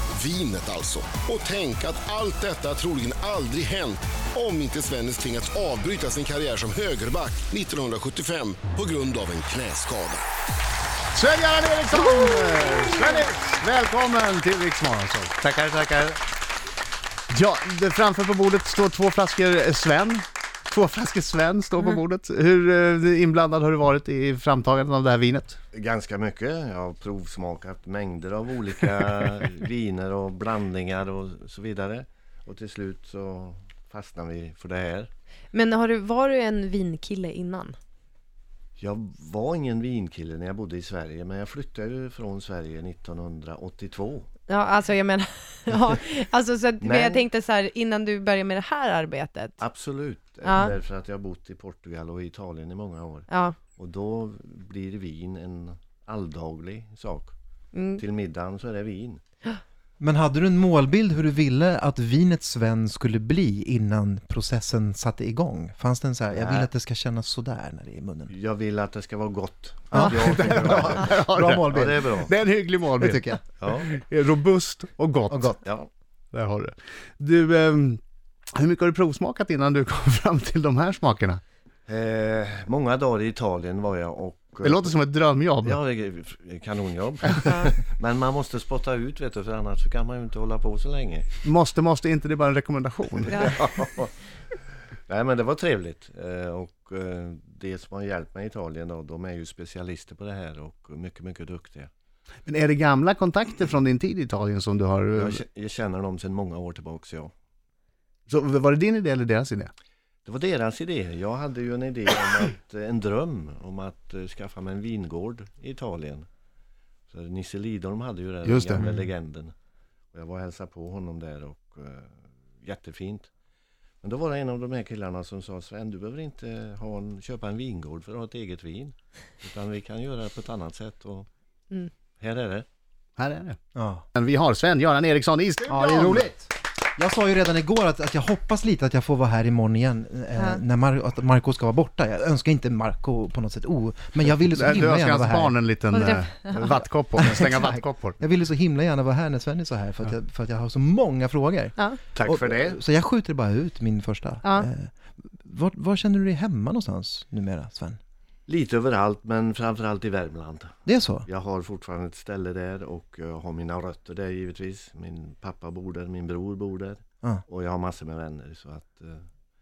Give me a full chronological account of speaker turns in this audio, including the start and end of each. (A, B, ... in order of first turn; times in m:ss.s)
0:00.1-0:10.2 A
0:11.1-0:15.3 B
0:15.4-0:16.2 C
0:17.3-0:25.6 B
0:25.7-0:35.1 C
0:35.5-0:37.8 D
0:38.8-0:44.3 C
0:44.5-0:49.6 D
0:46.8-0:47.3 C
0:49.6-0:57.3 C
0:50.4-0:50.7 D
0:53.3-0:53.6 D
0:57.7-0:58.0 D
0:58.0-0:59.2 C
1:00.0-1:08.3 E
1:06.3-1:06.7 C
1:08.3-1:12.4 C
1:09.9-1:11.9 E
1:10.4-1:15.6 B
1:13.0-1:13.4 E
1:13.6-1:13.9 C
1:15.3-1:15.6 E
1:15.6-1:15.9 C
1:16.3-1:18.0 B
1:18.6-1:21.4 B
1:21.9-1:24.9 C
1:24.6-1:25.8 B
1:25.6-1:31.4 C
1:31.4-1:33.4 B
1:33.2-1:34.1 C
1:35.1-1:41.9 C
1:42.5-1:45.4 B
1:45.2-1:47.3 C
1:48.3-1:49.7 B
1:50.2-1:56.3 C
1:57.1-1:59.5 C
1:58.4-1:58.9 B
2:00.1-2:03.3 C
2:04.0-2:11.3 C
2:12.2-2:12.7 C
2:13.2-2:13.6 B
2:13.8-2:14.0 E
2:14.2-2:16.3 B
2:15.7-2:25.6 E
2:20.4-2:20.6 D
2:24.6-2:28.2 B
2:25.9-2:26.8 D
2:27.2-2:27.7 E
2:28.2-2:38.0 E
2:32.2-2:32.8 C
2:38.5-2:49.3 C
2:40.9-2:41.3 E